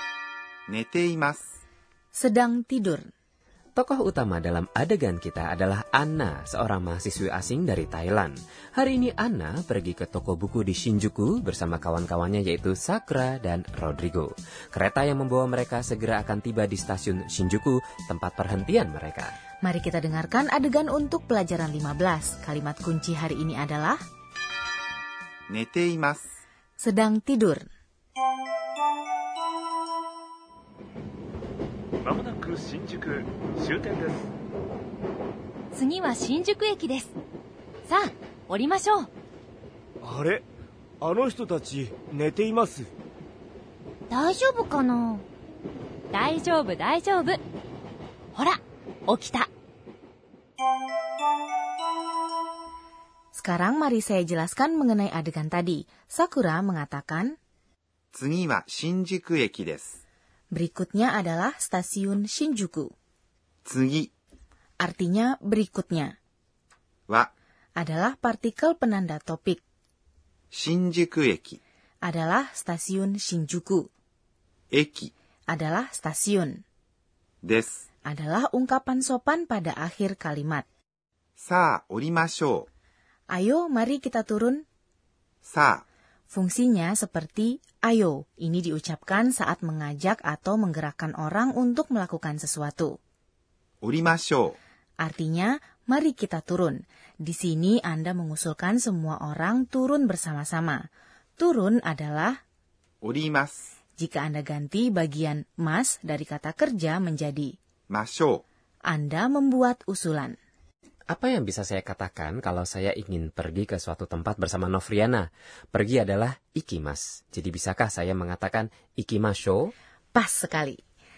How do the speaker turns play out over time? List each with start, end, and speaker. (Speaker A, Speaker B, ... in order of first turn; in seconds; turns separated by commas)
Speaker A: 0.7-1.5, Speaker B: 2.1-3.1, Speaker C: 3.8-19.3, Speaker B: 19.6-24.0, Speaker A: 25.5-26.3, Speaker B: 26.8-27.6, Speaker D: 32.0-34.3, Speaker E: 35.7-37.1, Speaker E: 37.9-39.1, Speaker F: 40.0-40.5, Speaker F: 41.0-42.9, Speaker E: 44.1-45.3, Speaker E: 46.1-47.4, Speaker E: 48.4-49.5, Speaker B: 53.3-57.4, Speaker A: 58.1-60.0, Speaker B: 60.5-62.9, Speaker A: 63.7-64.1, Speaker B: 64.8-66.2, Speaker B: 67.8-69.6, Speaker A: 70.5-71.6, Speaker B: 72.0-73.9, Speaker A: 74.7-75.1, Speaker B: 75.5-76.6, Speaker A: 77.4-77.8, Speaker B: 78.1-80.7, Speaker A: 81.4-82.7, Speaker B: 83.3-84.6, Speaker A: 85.4-85.8, Speaker B: 86.3-93.0, Speaker A: 93.8-94.6, Speaker B: 95.0-100.8, Speaker B: 101.4-102.4, Speaker A: 103.0-103.6, Speaker B: 104.0-107.5, Speaker A: 107.9-108.4, Speaker B: 108.9-110.3, Speaker C: 111.1-119.7, Speaker B: 120.1-120.8